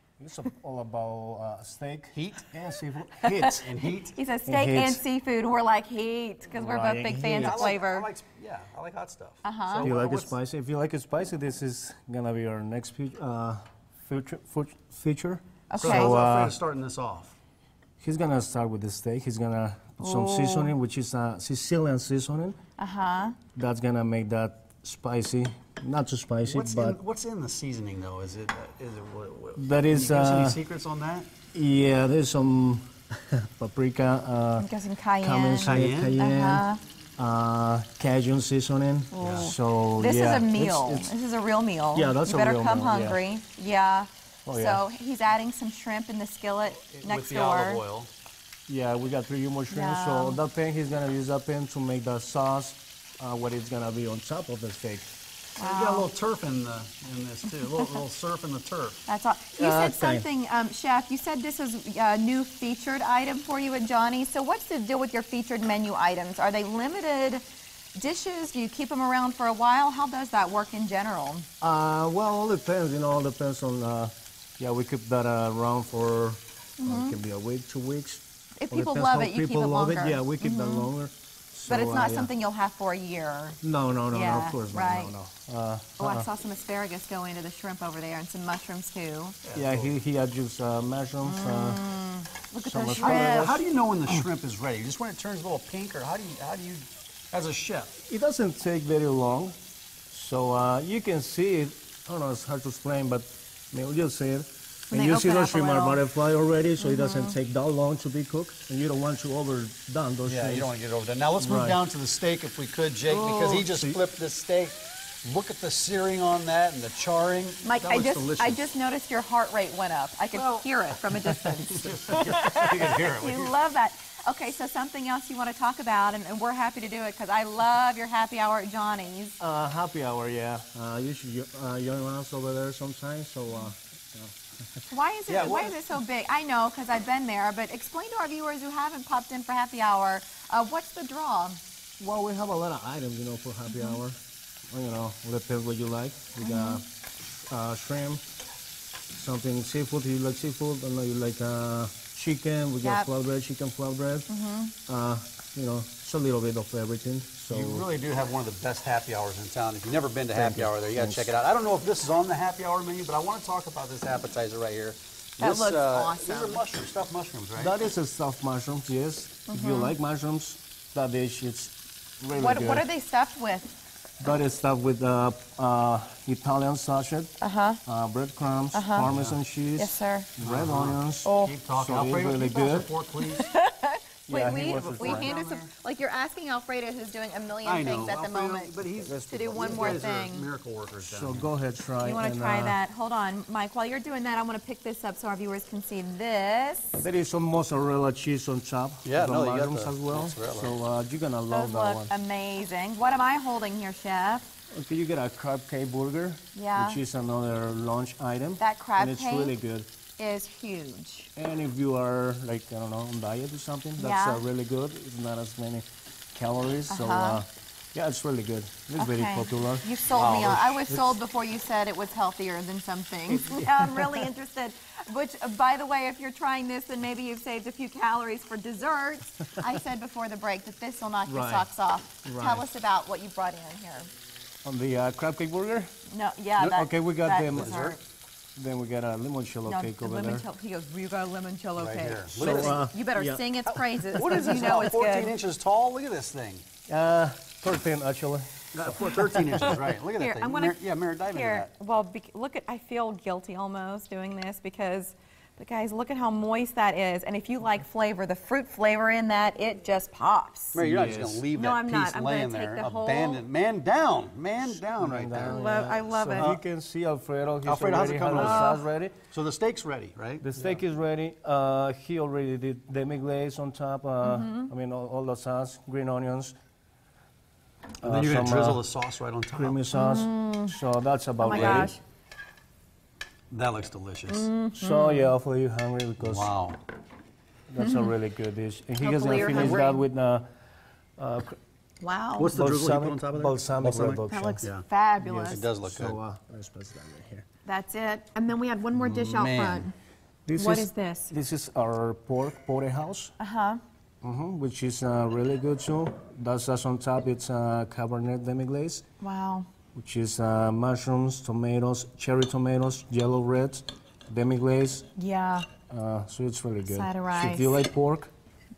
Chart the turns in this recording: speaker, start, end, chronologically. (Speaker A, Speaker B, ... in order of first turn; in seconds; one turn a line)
Speaker A: 0.2-3.9
Speaker B: 2.1-2.5
Speaker C: 3.2-3.5
Speaker B: 3.5-4.2
Speaker C: 4.1-8.1
Speaker A: 4.5-5.0
Speaker A: 6.5-7.7
Speaker B: 7.3-10.4
Speaker C: 9.4-9.9
Speaker A: 9.8-16.6
Speaker C: 15.7-16.2
Speaker B: 15.8-17.3
Speaker A: 18.0-22.6
Speaker C: 20.0-20.7
Speaker C: 22.8-23.4
Speaker A: 23.5-27.0
Speaker B: 26.5-31.3
Speaker A: 29.6-30.6
Speaker A: 31.5-34.7
Speaker C: 34.6-36.8
Speaker A: 35.2-36.6
Speaker B: 35.6-36.2
Speaker A: 37.2-41.1
Speaker C: 39.1-47.8
Speaker B: 39.2-39.5
Speaker A: 41.9-43.2
Speaker A: 44.5-44.8
Speaker B: 46.9-48.1
Speaker A: 48.7-55.1
Speaker C: 49.7-50.4
Speaker B: 55.5-59.0
Speaker C: 55.6-56.1
Speaker C: 59.1-67.4
Speaker A: 59.6-60.3
Speaker C: 67.9-71.5
Speaker A: 71.6-82.3
Speaker C: 76.8-77.2
Speaker C: 78.6-80.9
Speaker C: 81.7-85.2
Speaker A: 83.6-86.3
Speaker C: 86.0-89.4
Speaker B: 89.4-89.9
Speaker A: 89.5-91.8
Speaker C: 91.2-93.6
Speaker A: 92.6-93.6
Speaker B: 93.0-97.9
Speaker A: 98.0-99.5
Speaker A: 100.1-110.7
Speaker C: 104.9-106.0
Speaker C: 106.8-107.4
Speaker B: 110.2-118.7
Speaker A: 111.4-111.8
Speaker A: 113.1-114.0
Speaker C: 117.6-129.4
Speaker B: 120.3-120.6
Speaker B: 121.7-123.5
Speaker A: 129.4-134.3
Speaker C: 134.9-141.6
Speaker B: 135.3-135.8
Speaker A: 142.0-144.2
Speaker C: 143.7-144.0
Speaker A: 144.7-146.8
Speaker C: 146.4-146.8
Speaker A: 147.5-148.2
Speaker A: 149.1-154.3
Speaker C: 152.8-153.1
Speaker C: 154.3-154.7
Speaker A: 154.9-157.9
Speaker B: 157.5-167.7
Speaker A: 160.3-161.3
Speaker C: 165.4-166.6
Speaker A: 167.6-172.8
Speaker C: 169.5-169.9
Speaker C: 172.3-173.7
Speaker A: 174.2-177.3
Speaker C: 177.4-177.8
Speaker A: 177.8-182.9
Speaker C: 178.7-179.1
Speaker B: 179.0-179.4
Speaker C: 179.8-180.3
Speaker B: 180.4-183.4
Speaker C: 181.2-181.5
Speaker C: 183.2-190.5
Speaker A: 184.3-185.3
Speaker B: 184.8-185.7
Speaker B: 187.6-191.5
Speaker A: 188.9-190.1
Speaker A: 191.0-192.8
Speaker C: 192.0-197.0
Speaker A: 197.0-202.1
Speaker B: 199.0-200.7
Speaker C: 201.5-204.4
Speaker A: 204.7-209.9
Speaker C: 206.5-207.0
Speaker C: 208.6-209.6
Speaker C: 210.2-211.3
Speaker A: 211.3-219.9
Speaker C: 214.0-214.4
Speaker C: 216.9-217.4
Speaker C: 219.0-234.1
Speaker B: 220.1-221.2
Speaker A: 223.3-224.3
Speaker A: 231.2-231.7
Speaker A: 232.2-232.7
Speaker A: 234.6-235.9
Speaker C: 236.1-238.0
Speaker A: 236.6-237.9
Speaker B: 237.5-238.0
Speaker A: 238.6-240.4
Speaker C: 239.6-245.3
Speaker B: 241.8-242.8
Speaker A: 242.3-244.9
Speaker B: 244.1-246.6
Speaker A: 246.9-249.8
Speaker B: 248.7-251.7
Speaker C: 250.1-260.8
Speaker B: 260.7-265.8
Speaker A: 260.8-261.4
Speaker C: 261.5-263.4
Speaker A: 264.9-269.2
Speaker C: 265.4-266.5
Speaker B: 267.6-270.8
Speaker C: 268.3-268.8
Speaker A: 270.4-276.5
Speaker C: 274.2-274.7
Speaker A: 278.0-278.8
Speaker B: 278.0-279.8
Speaker A: 279.5-281.9
Speaker C: 279.9-280.8
Speaker C: 281.4-282.0
Speaker B: 281.4-281.9
Speaker B: 283.5-284.5
Speaker C: 284.3-285.3
Speaker A: 284.7-286.5
Speaker B: 286.2-286.8
Speaker A: 287.7-290.4
Speaker C: 287.8-288.1
Speaker C: 289.0-290.0
Speaker B: 289.3-289.9
Speaker A: 291.2-291.6
Speaker C: 292.0-292.5
Speaker B: 292.4-294.8
Speaker A: 292.4-297.4
Speaker C: 294.3-295.7
Speaker B: 295.4-296.2
Speaker C: 297.6-299.9
Speaker B: 299.0-299.9
Speaker A: 300.5-303.3
Speaker C: 300.5-301.3
Speaker C: 303.4-303.8
Speaker A: 304.2-309.0
Speaker C: 309.2-309.7
Speaker A: 309.9-315.1
Speaker C: 315.1-315.7
Speaker A: 315.9-318.3
Speaker C: 316.8-317.8